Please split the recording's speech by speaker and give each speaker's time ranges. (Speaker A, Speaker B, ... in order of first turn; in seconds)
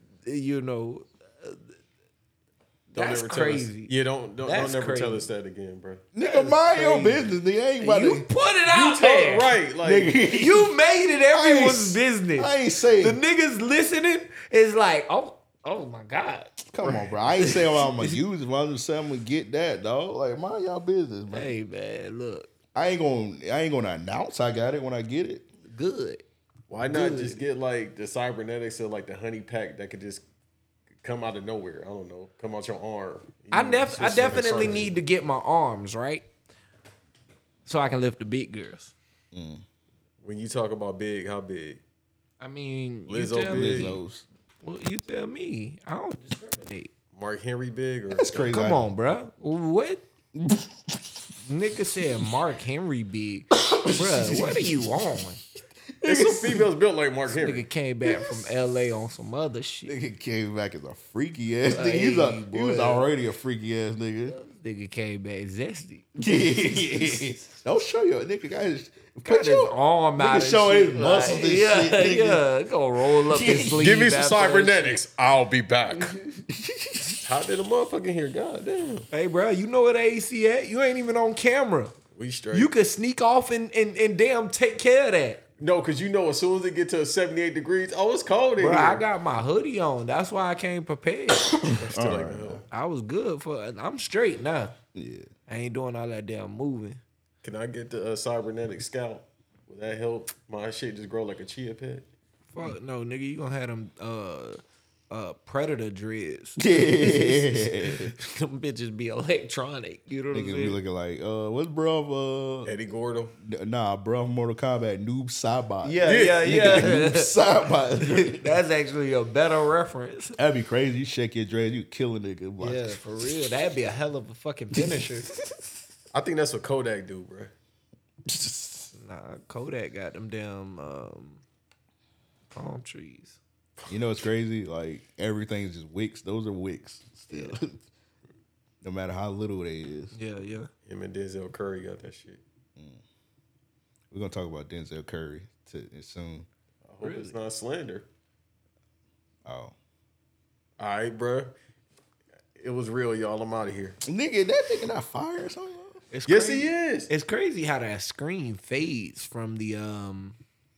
Speaker A: 0.2-1.7, 2.9-5.3, 6.2-9.5, 10.3-16.6, 17.4-18.2, 21.3-22.5, 25.7-26.2, 26.9-27.4, 33.5-36.2, 37.7-38.9, 42.4-44.0, 44.6-46.9, 48.5-50.0, 51.5-55.4, 57.3-60.0, 61.7-63.1, 64.3-67.3, 69.2-75.0, 79.1-81.9, 82.5-85.4, 88.6-91.7, 92.7-94.7, 95.5-97.0, 102.5-110.8, 115.8-117.3, 118.0-120.4, 122.6-125.3, 128.9-131.4, 132.5-133.4, 137.3-137.6, 140.1-140.7, 147.0-147.3, 156.1-160.4
Speaker B: 2.9-6.0, 8.7-10.2, 26.7-30.2, 31.0-35.0, 40.2-41.8, 43.1-44.0, 47.1-48.5, 56.0-57.7, 73.7-76.2, 77.2-79.1, 82.1-82.7, 85.6-89.0, 91.8-92.6, 97.4-102.1, 112.7-113.3, 116.0-116.9, 126.1-127.5, 140.9-142.4, 146.8-148.1, 150.8-151.5, 152.6-154.0, 156.3-157.1
Speaker C: 6.1-8.3, 9.8-10.7, 11.3-13.2, 16.6-21.5, 22.7-25.5, 34.1-34.9, 39.3-39.6, 43.5-44.2, 48.1-48.9, 50.4-51.2, 53.5-55.1, 56.0-56.7, 58.1-58.4, 59.9-64.4, 66.2-72.5, 73.1-73.9, 76.2-77.2, 91.5-92.6, 94.9-95.3, 106.6-108.2, 110.3-112.7, 113.4-118.6, 120.4-123.0, 124.8-125.0, 128.3-128.9, 133.9-137.8, 138.8-140.2, 142.8-143.0, 144.1-146.5, 149.4-149.8, 154.1-156.0